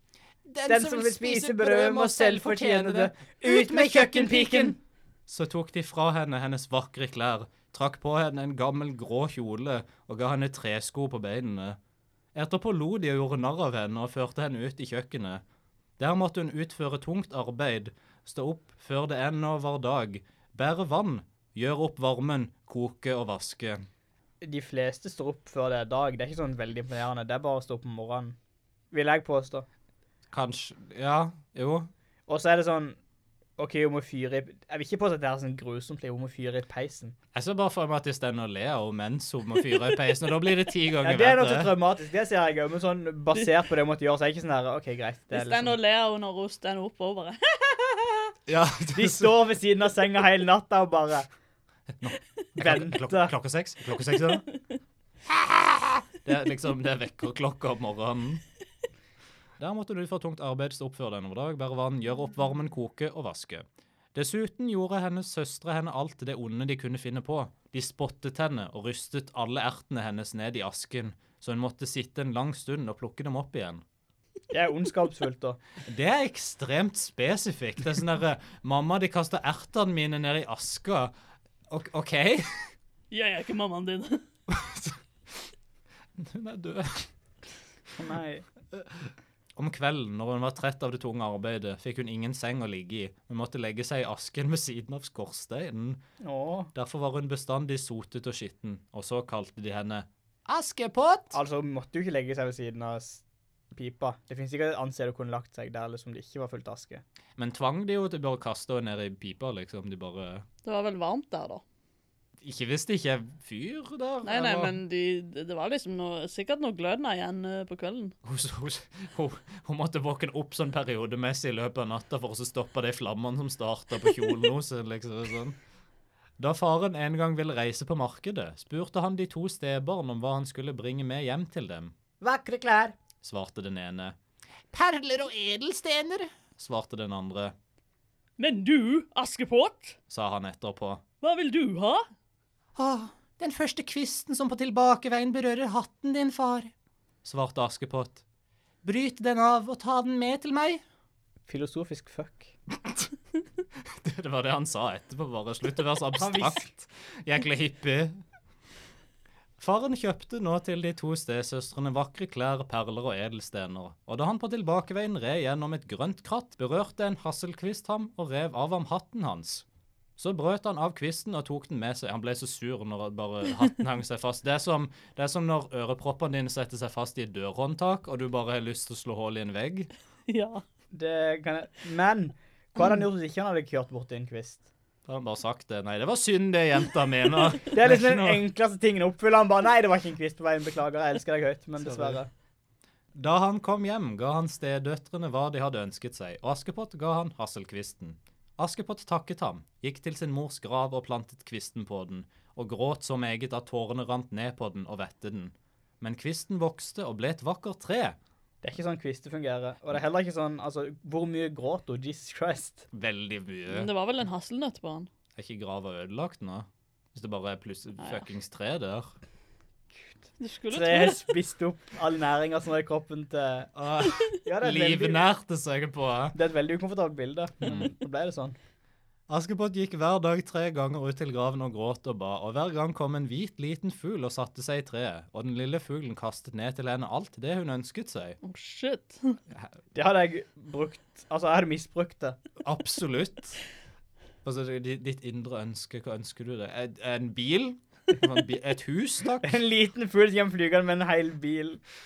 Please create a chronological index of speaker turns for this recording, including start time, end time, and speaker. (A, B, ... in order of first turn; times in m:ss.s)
0:00.5-0:11.8 A
0:00.6-0:04.8 B
0:12.3-0:15.4 A
0:16.0-0:23.9 A
0:24.4-0:28.4 B
0:28.9-0:29.7 B
0:30.3-0:31.9 A
0:32.3-0:33.0 B
0:33.6-0:37.1 B
0:37.3-0:41.8 A
0:41.0-0:45.8 B
0:45.3-0:48.3 C
0:48.5-0:49.4 A
0:48.9-0:51.3 B
0:52.0-0:54.5 A
0:52.6-0:53.3 B
0:55.3-0:58.4 A
0:59.6-1:13.8 A
1:14.5-1:15.6 B
1:15.8-1:21.1 A
1:21.7-1:22.7 A
1:23.1-1:24.2 C
1:24.5-1:25.5 A
1:26.2-1:27.1 A
1:28.0-1:28.4 B
1:28.7-1:36.0 A
1:36.2-1:36.7 B
1:36.7-1:41.4 A
1:41.3-1:47.0 B
1:47.4-1:50.4 A
1:50.6-1:51.6 C
1:52.4-1:54.8 A
1:54.2-1:58.1 C
1:58.2-2:05.6 A
2:06.4-2:11.9 A
2:12.2-2:13.0 B
2:13.2-2:14.1 A
2:14.7-2:17.5 A
2:18.4-2:20.0 C
2:20.1-2:21.0 A
2:21.2-2:22.0 C
2:22.8-2:26.7 A
2:27.2-2:28.2 A
2:28.8-2:30.8 A
2:31.5-2:32.5 B
2:33.8-2:38.2 A
2:36.2-2:36.7 B
2:39.6-2:49.6 A
2:50.2-2:59.9 A
3:00.3-3:00.6 C
3:00.9-3:04.6 B
3:05.0-3:08.4 A
3:07.7-3:12.3 B
3:11.8-3:12.2 A
3:13.1-3:28.2 A
3:28.6-3:32.9 B
3:32.9-3:33.9 A
3:33.7-3:35.1 C
3:35.4-3:39.1 A
3:40.4-3:41.3 C
3:40.7-3:43.7 B
3:43.7-3:46.4 A
3:44.4-3:45.2 B
3:46.3-3:48.6 B
3:47.6-3:47.9 A
3:49.3-3:58.4 A
3:58.4-3:59.4 C
3:59.9-4:02.4 B
4:02.6-4:03.6 A
4:04.4-4:09.5 A
4:09.4-4:11.8 B